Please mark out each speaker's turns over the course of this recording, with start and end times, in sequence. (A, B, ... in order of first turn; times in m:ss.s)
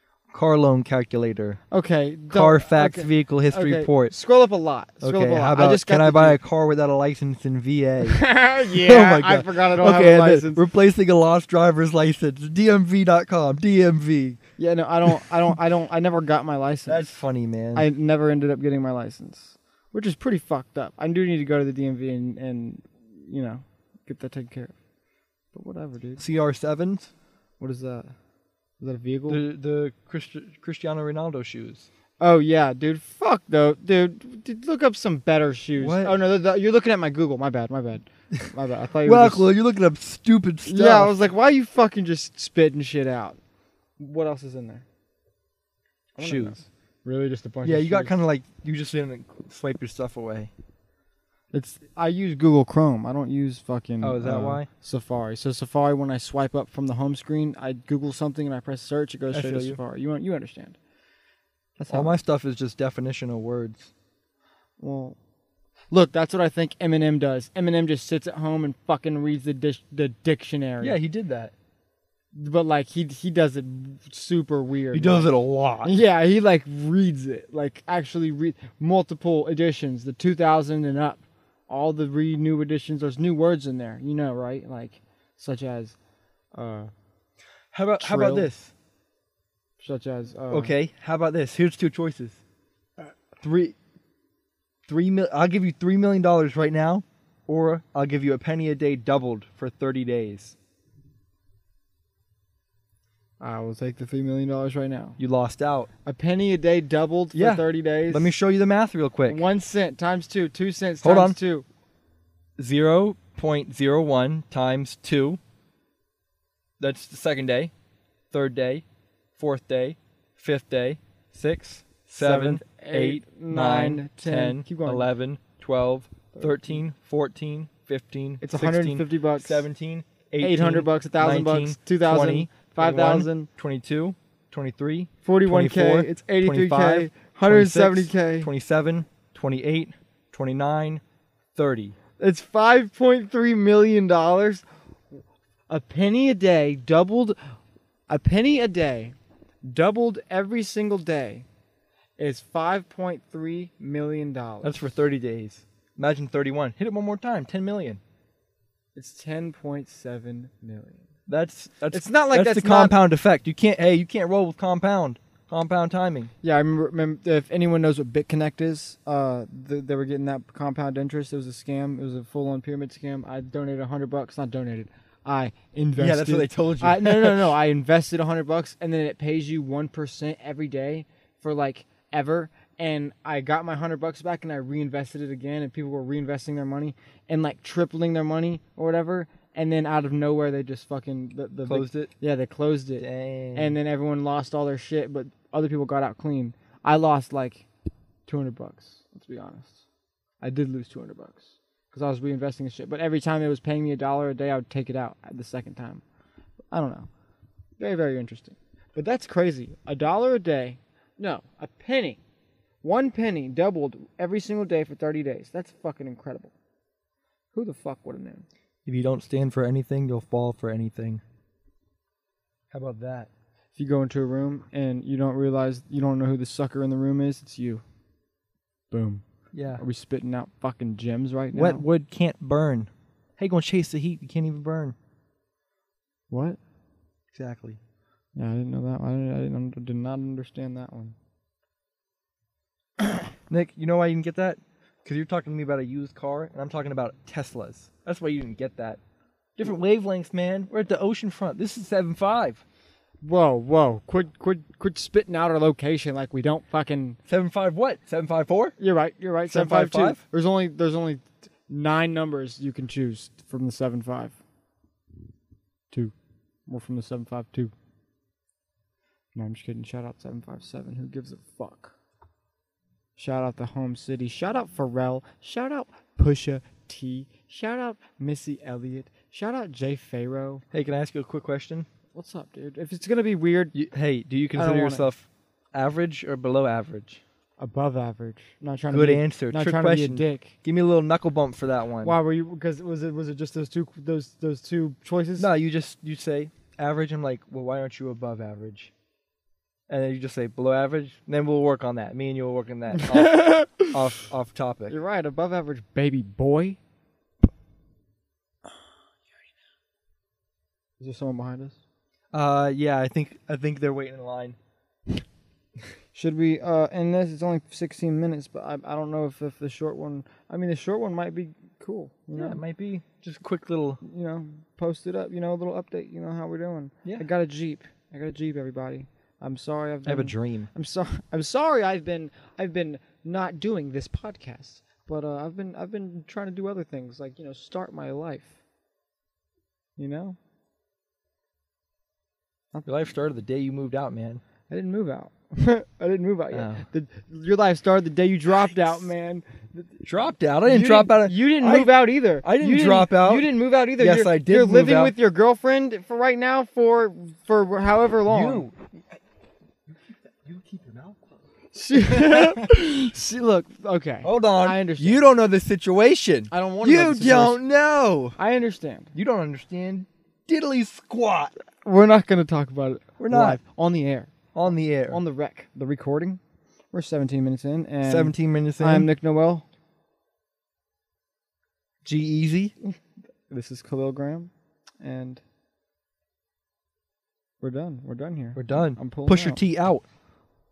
0:00.3-0:01.6 A
0:01.7-0:06.4 B
0:02.3-0:04.1 A
0:05.0-0:14.4 A
0:08.0-0:10.6 B
0:14.6-0:17.1 B
0:16.8-0:17.9 A
0:17.7-0:24.7 B
0:25.5-0:26.2 B
0:26.2-0:27.1 A
0:27.6-0:28.1 B
0:28.8-0:29.4 B
0:29.3-0:31.9 A
0:32.2-0:39.5 B
0:35.8-0:36.2 A
0:39.0-0:41.3 A
0:40.6-0:43.4 B
0:44.0-0:44.8 B
0:46.2-0:48.2 B
0:46.2-0:46.6 A
0:47.6-0:50.5 A
0:51.5-1:00.8 B
0:54.0-0:54.7 A
0:59.3-0:59.8 A
1:01.8-1:02.2 B
1:01.9-1:03.9 A
1:04.8-1:05.2 B
1:05.9-1:11.0 B
1:10.8-1:11.5 A
1:12.3-1:15.3 B
1:14.9-1:16.0 A
1:15.8-1:26.0 B
1:26.5-1:26.9 B
1:27.7-1:28.7 A
1:28.0-1:28.5 B
1:29.8-1:30.7 B
1:30.5-1:32.4 A
1:33.4-1:33.8 A
1:34.9-1:40.5 A
1:43.4-1:45.2 B
1:45.2-1:45.9 A
1:46.0-1:48.4 B
1:47.3-1:49.4 A
1:49.2-1:51.6 B
1:51.0-1:51.4 A
1:52.6-1:55.4 A
1:56.8-1:57.7 A
1:58.3-1:58.8 A
1:59.4-2:21.0 A
2:02.2-2:05.1 B
2:06.3-2:06.8 B
2:08.4-2:09.7 B
2:10.4-2:13.5 B
2:15.2-2:18.5 B
2:21.5-2:22.0 A
2:22.2-2:24.6 B
2:25.7-2:27.4 B
2:28.1-2:29.1 B
2:29.7-2:31.4 B
2:32.2-2:34.8 B
2:34.6-2:38.0 A
2:38.9-2:41.0 B
2:41.3-2:46.3 A
2:41.9-2:43.0 B
2:46.4-3:17.6 B
2:55.9-2:57.6 A
3:11.7-3:12.1 A
3:13.0-3:13.8 A
3:18.3-3:19.8 B
3:20.4-3:26.0 B
3:26.7-3:27.1 B
3:27.8-3:32.2 B
3:32.8-3:36.5 B
3:37.5-3:38.5 B
3:38.8-3:41.2 A
3:42.7-3:43.3 A
3:43.8-3:47.8 B
3:48.9-3:49.2 B
3:49.5-3:49.8 A
3:49.7-3:51.8 B
3:51.5-3:54.9 A
3:56.3-3:56.6 B
3:57.3-3:57.8 A
3:58.4-4:01.2 B
4:03.5-4:09.0 A
4:09.6-4:12.6 A
4:13.2-4:17.2 B
4:17.3-4:18.7 A
4:18.8-4:24.4 B
4:19.5-4:20.2 A
4:26.7-4:27.7 B
4:29.3-4:31.9 B
4:33.2-4:40.6 B
4:40.7-4:41.9 A
4:42.1-4:43.8 B
4:43.7-4:47.2 A
4:44.5-4:45.1 B
4:47.6-4:50.6 B
4:48.9-4:52.1 A
4:52.0-4:55.5 B
4:55.4-4:58.9 A
4:59.9-5:05.0 A
5:02.9-5:04.1 B
5:04.9-5:06.8 B
5:11.0-5:11.8 B
5:12.3-5:14.6 A
5:16.1-5:22.6 B
5:22.3-5:24.0 A
5:24.0-5:38.5 B
5:30.0-5:30.7 A
5:40.0-5:40.4 B
5:42.8-5:44.4 A
5:44.7-5:50.0 B
5:46.5-5:46.8 A
5:48.5-5:49.0 A
5:50.0-5:55.1 A
5:50.6-5:58.7 B
5:58.3-5:58.7 A
6:00.4-6:01.2 A
6:01.7-6:05.2 B
6:01.9-6:02.7 A
6:04.2-6:08.4 A
6:06.5-6:07.6 B
6:08.4-6:09.1 B
6:09.1-6:11.5 A
6:11.8-6:14.3 B
6:13.2-6:13.6 A
6:14.5-6:15.2 A
6:15.0-6:16.4 B
6:16.9-6:19.6 B
6:18.0-6:19.1 A
6:22.0-6:22.7 A
6:23.5-6:24.5 B
6:25.0-6:25.4 B
6:27.6-6:29.6 B
6:28.6-6:30.0 A